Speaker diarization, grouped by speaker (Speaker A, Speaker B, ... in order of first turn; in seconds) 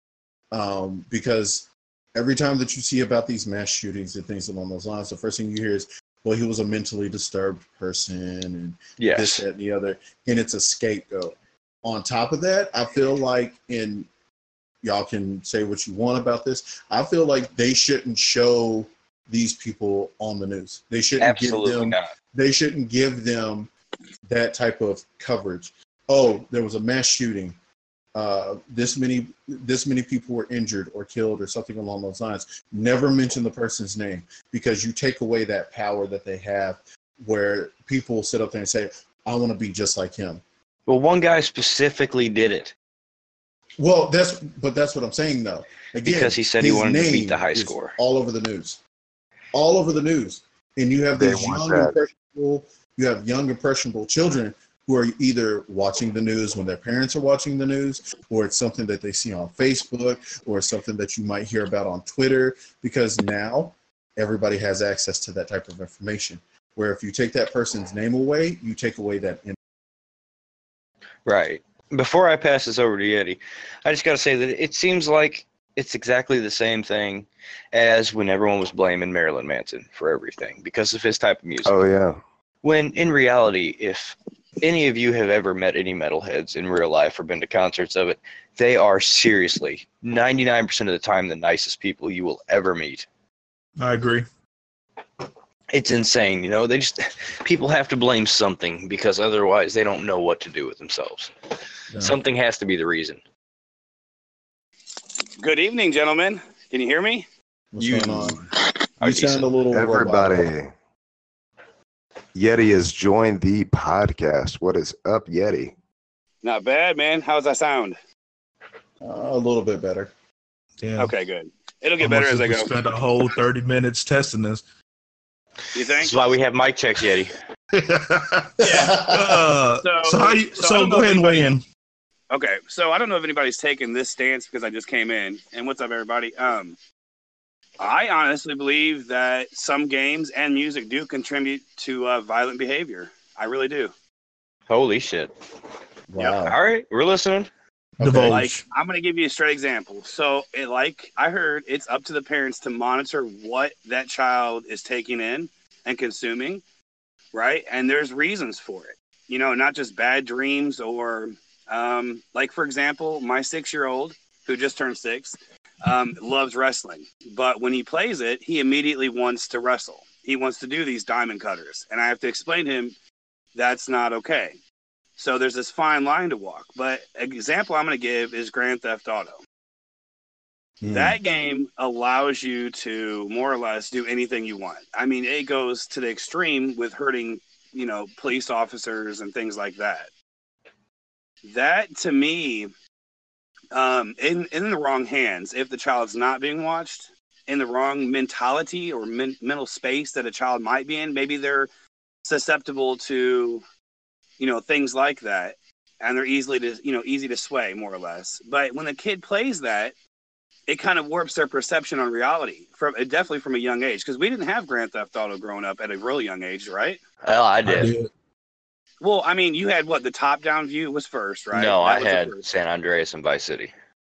Speaker A: 0.5-14.1, 14.8-23.7, 24.3-27.6, 28.1-40.4, 43.8-48.8, 49.5-69.6, 101.9-102.2, 107.7-108.5, 109.0-110.5, 119.0-120.1, 128.6-129.4, 146.1-146.6, 148.0-148.4, 180.8-181.2
Speaker B: 9.0-9.4, 21.2-22.1, 40.9-42.7, 46.0-48.0, 71.3-81.8, 82.6-93.1, 95.7-101.3, 102.0-103.2, 107.8-108.4, 109.0-109.5, 126.0-127.3, 144.7-145.3, 146.4-147.5, 217.2-217.9, 221.5-223.7
Speaker C: 51.2-52.0, 81.7-82.2, 109.7-110.7, 112.3-115.7
Speaker D: 93.8-94.2, 120.8-121.1, 122.0-124.6, 127.7-131.6, 148.0-148.6, 217.7-218.1
Speaker E: 105.4-107.2, 116.4-118.0, 121.0-122.7, 125.7-126.1, 128.6-128.9, 129.8-131.5, 132.3-136.8, 137.8-143.9, 148.3-156.6, 157.3-173.0, 173.5-174.6, 175.2-179.4, 180.9-190.1, 191.4-192.7, 193.7-201.7, 202.2-203.6, 204.4-209.9, 210.7-217.0, 219.0-222.4